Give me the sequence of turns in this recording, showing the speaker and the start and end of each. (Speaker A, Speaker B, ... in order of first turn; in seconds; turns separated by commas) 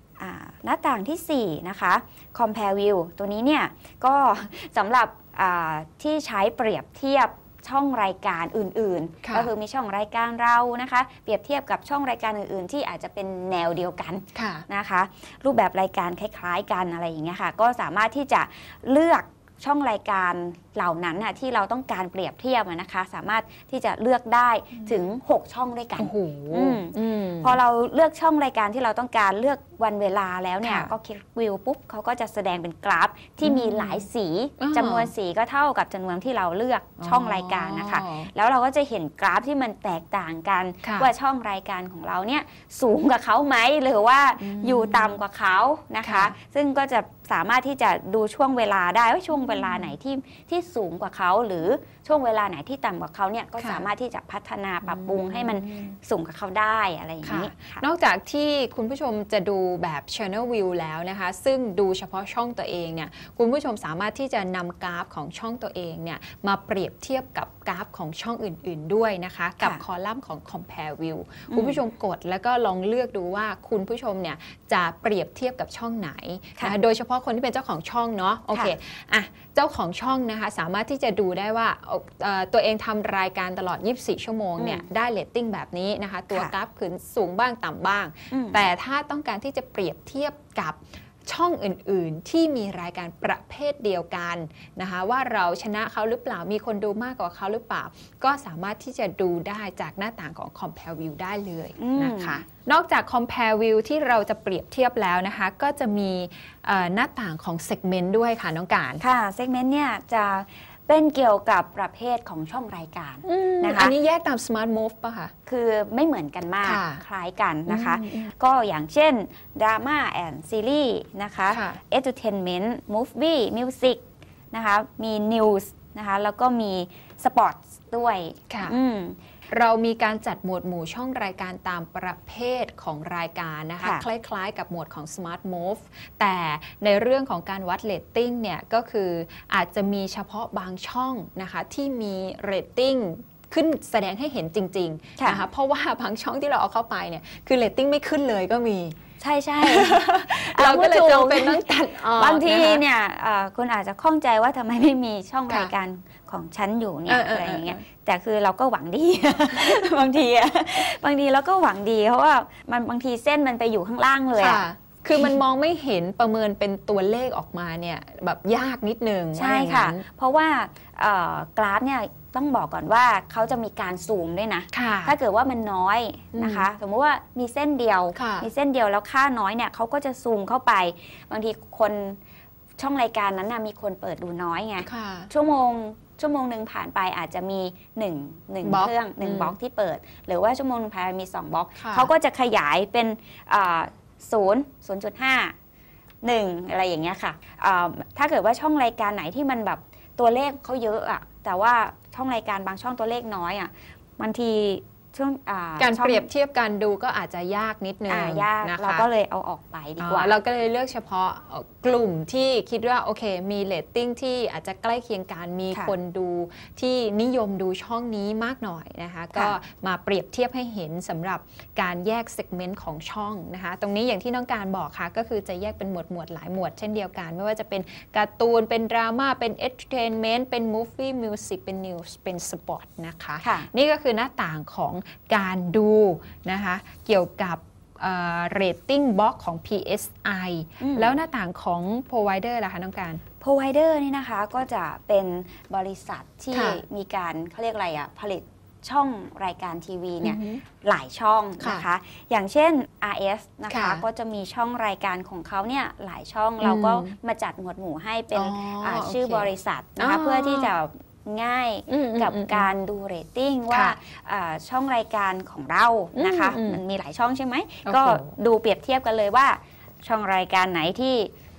Speaker A: 0.2-57.8, Speaker B: 9.2-9.5, Speaker B: 14.3-14.7, Speaker B: 24.7-25.0, Speaker B: 26.0-27.6, Speaker B: 30.6-30.9, Speaker B: 33.4-34.0, Speaker B: 34.6-35.1, Speaker B: 37.0-38.3, Speaker B: 40.8-41.1, Speaker B: 44.4-45.2, Speaker B: 46.0-46.4, Speaker B: 49.3-50.0, Speaker B: 53.6-53.8, Speaker B: 54.8-56.0, Speaker B: 57.2-109.0, Speaker A: 71.5-71.8, Speaker A: 84.6-84.9, Speaker A: 88.3-88.7, Speaker A: 101.8-102.4, Speaker A: 109.0-113.9, Speaker B: 113.2-115.3, Speaker A: 115.5-129.2, Speaker B: 116.6-117.0, Speaker B: 117.7-118.3, Speaker B: 121.5-121.8, Speaker B: 128.5-128.8, Speaker B: 129.5-149.0, Speaker A: 133.8-134.1, Speaker A: 145.2-145.5, Speaker A: 149.2-164.6, Speaker B: 149.6-152.8, Speaker B: 155.5-155.7, Speaker B: 157.1-157.8, Speaker B: 159.6-160.0, Speaker B: 164.4-170.0, Speaker A: 169.3-182.2, Speaker B: 174.7-175.2, Speaker B: 176.3-176.7, Speaker B: 178.2-178.5, Speaker A: 182.8-195.5, Speaker B: 184.9-185.3, Speaker B: 188.6-189.6, Speaker B: 191.8-192.1, Speaker A: 196.2-206.3, Speaker B: 205.8-209.1, Speaker A: 208.1-210.4, Speaker B: 210.0-243.2, Speaker A: 233.4-233.7, Speaker A: 240.8-241.2, Speaker A: 243.4-271.3, Speaker B: 246.5-246.8, Speaker B: 250.2-250.6, Speaker B: 251.6-251.9, Speaker B: 253.7-254.0, Speaker B: 256.6-257.2, Speaker B: 258.3-260.7, Speaker B: 261.9-262.7, Speaker B: 263.7-264.0, Speaker B: 266.1-266.8, Speaker B: 267.9-268.3